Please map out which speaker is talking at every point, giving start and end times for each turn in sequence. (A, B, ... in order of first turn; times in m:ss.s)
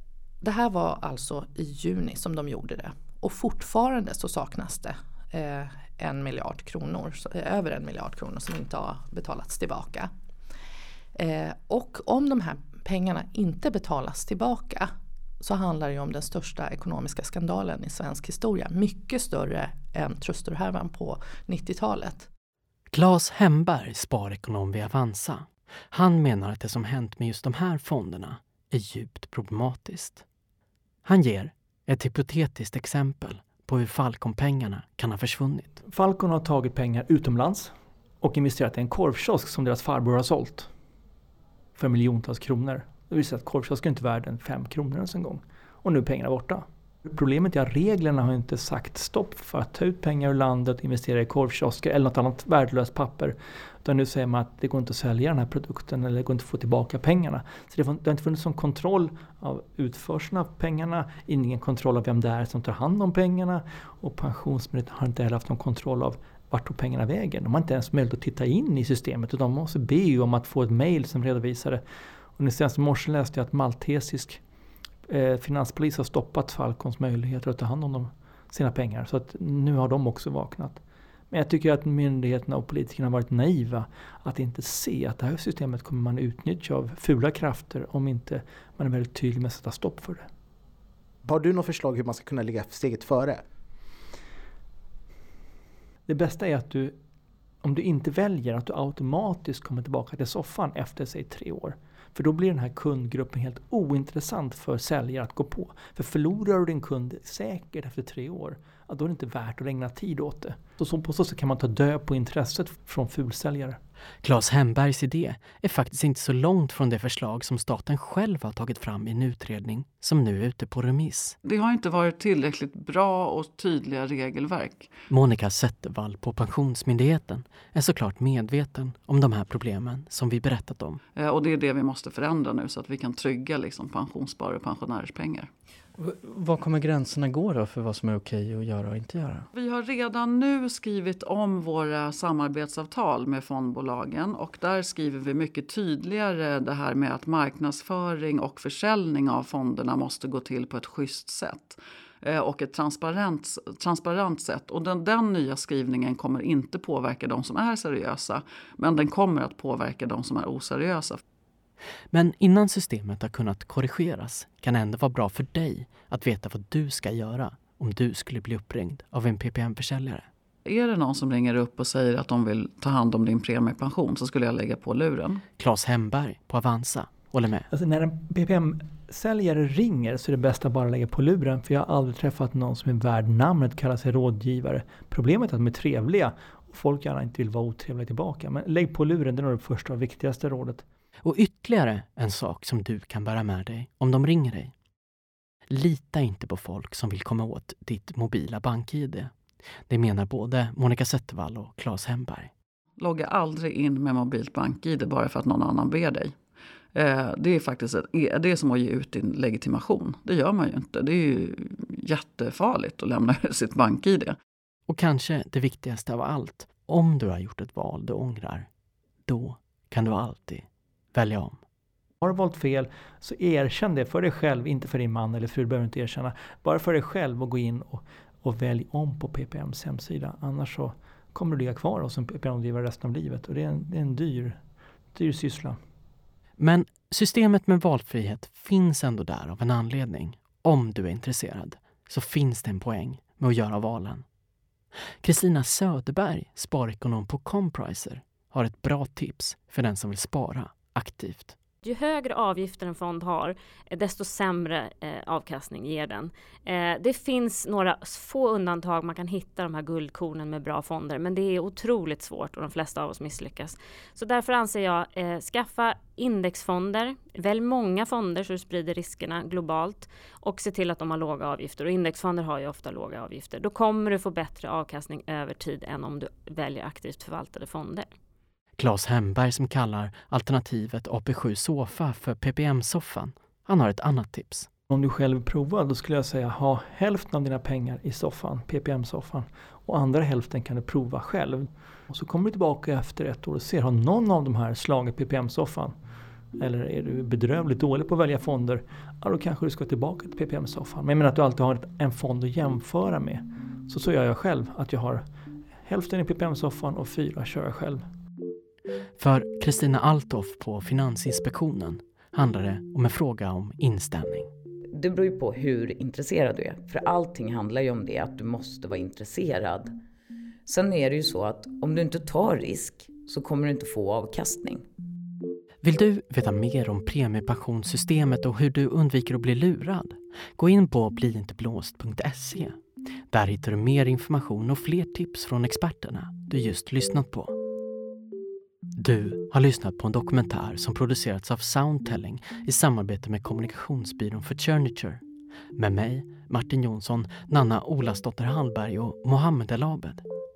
0:00.4-0:10.1 A
0:11.1-0:22.3 A
0:22.9-0:30.2 B
0:31.0-0:35.8 B
0:35.8-0:40.7 C
0:41.8-1:11.8 C
1:12.4-1:14.4 C
1:15.1-1:30.3 C
1:31.2-1:33.4 D
1:36.1-1:37.0 C
1:37.6-1:53.8 C
1:54.2-2:01.4 B
2:01.4-2:04.9 E
2:05.1-2:11.0 B
2:11.2-2:15.5 E
2:16.0-2:19.5 F
2:19.5-2:41.2 E
2:42.1-2:50.3 B
2:50.6-2:55.4 E
2:55.6-2:57.7 B
2:57.7-3:10.8 C
3:11.2-3:14.7 B
3:15.7-3:19.3 B
3:19.9-3:22.5 B
3:23.0-3:26.3 E
3:26.9-3:34.4 E
3:34.9-3:38.7 B
3:39.2-3:41.6 B
3:42.2-3:54.6 C
3:55.1-3:55.8 C
3:56.6-4:04.2 B
4:05.2-4:11.5 B
4:11.8-4:38.1 G
4:38.8-4:44.7 B
4:44.9-4:55.9 C
4:56.6-5:05.2 C
5:05.8-5:08.0 C
5:09.2-5:14.5 B
5:14.9-5:19.9 H
5:20.7-5:24.8 H
5:25.8-5:32.8 B
5:33.3-5:37.5 B
5:39.0-5:45.2 B
5:45.8-5:50.2 B